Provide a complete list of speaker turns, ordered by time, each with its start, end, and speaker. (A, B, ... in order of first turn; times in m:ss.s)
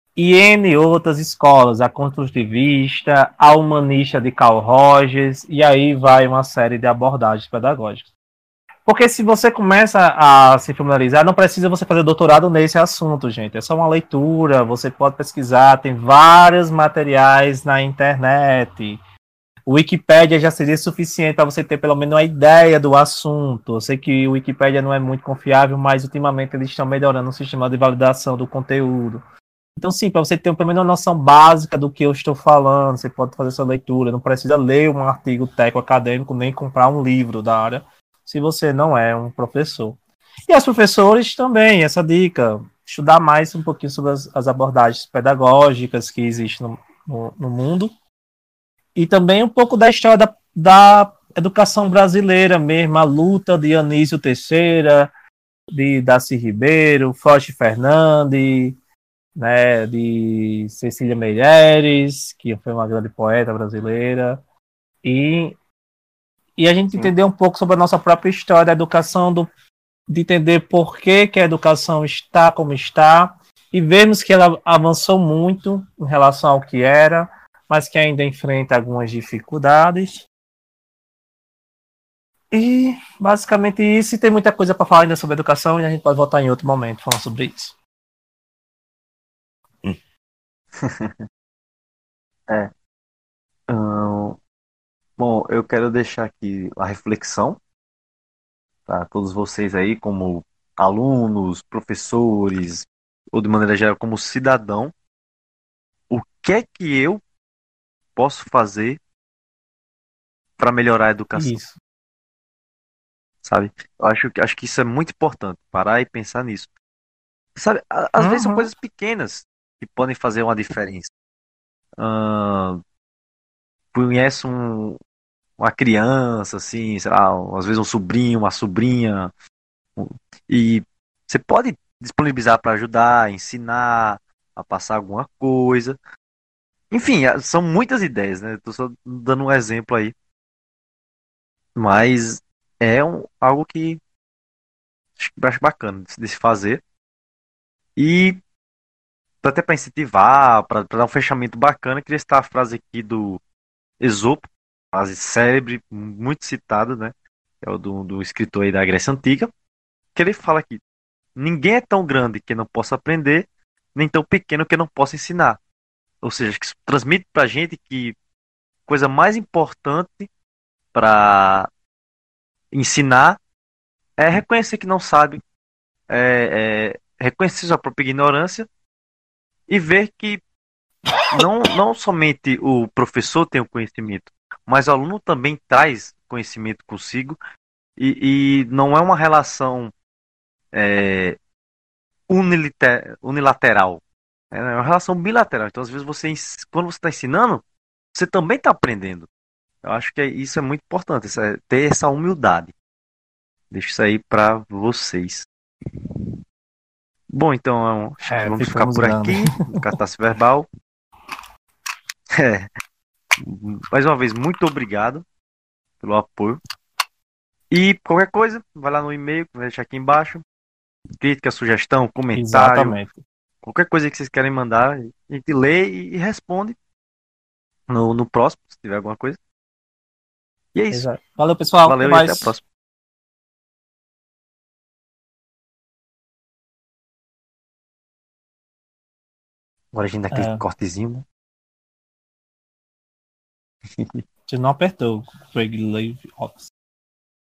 0:00.2-0:08.1 A
0:08.9-0:19.0 A
0:19.7-0:29.2 A
0:29.8-0:47.9 A
0:49.0-0:55.1 A
0:55.7-0:58.8 A
0:59.4-1:04.4 A
1:05.0-1:05.6 A
1:06.6-1:09.5 A
1:10.1-1:20.3 A
1:22.5-1:27.8 A
1:30.8-1:31.2 B
1:33.7-1:34.4 B
1:35.2-1:37.6 B
1:38.9-1:44.9 B
1:46.1-1:47.2 B
1:48.2-1:49.0 B
1:50.6-1:51.6 B
1:51.3-1:51.8 A
1:53.4-1:56.7 B
1:57.6-2:01.1 B
1:58.2-1:58.7 A
2:02.0-2:02.8 B
2:03.9-2:05.0 B
2:05.6-2:09.3 B
2:10.0-2:16.0 B
2:16.9-2:20.1 B
2:21.8-2:24.0 B
2:25.2-2:26.8 B
2:28.0-2:28.4 B
2:29.4-2:33.4 B
2:34.0-2:39.5 B
2:40.2-2:40.8 B
2:41.4-2:45.6 B
2:46.2-2:48.2 B
2:48.9-2:50.3 B
2:50.9-2:51.7 B
2:52.7-2:53.4 B
2:54.2-2:55.4 B
2:56.1-2:58.7 B
2:59.7-3:00.4 B
3:01.3-3:07.4 B
3:08.0-3:09.9 B
3:10.7-3:11.4 B
3:12.3-3:17.6 B
3:18.1-3:19.3 B
3:19.8-3:22.7 B
3:23.7-3:25.5 B
3:27.3-3:30.7 B
3:28.2-3:29.9 A
3:32.3-3:32.7 B
3:33.4-3:35.2 B
3:36.0-3:36.6 B
3:37.7-3:40.4 B
3:41.2-3:43.0 B
3:42.3-3:43.2 A
3:43.6-3:46.8 B
3:47.9-3:49.4 B
3:50.7-3:51.1 B
3:50.9-3:52.5 A
3:51.8-3:52.6 B
3:59.9-4:01.2 B
4:00.3-4:00.6 A
4:04.5-4:06.7 A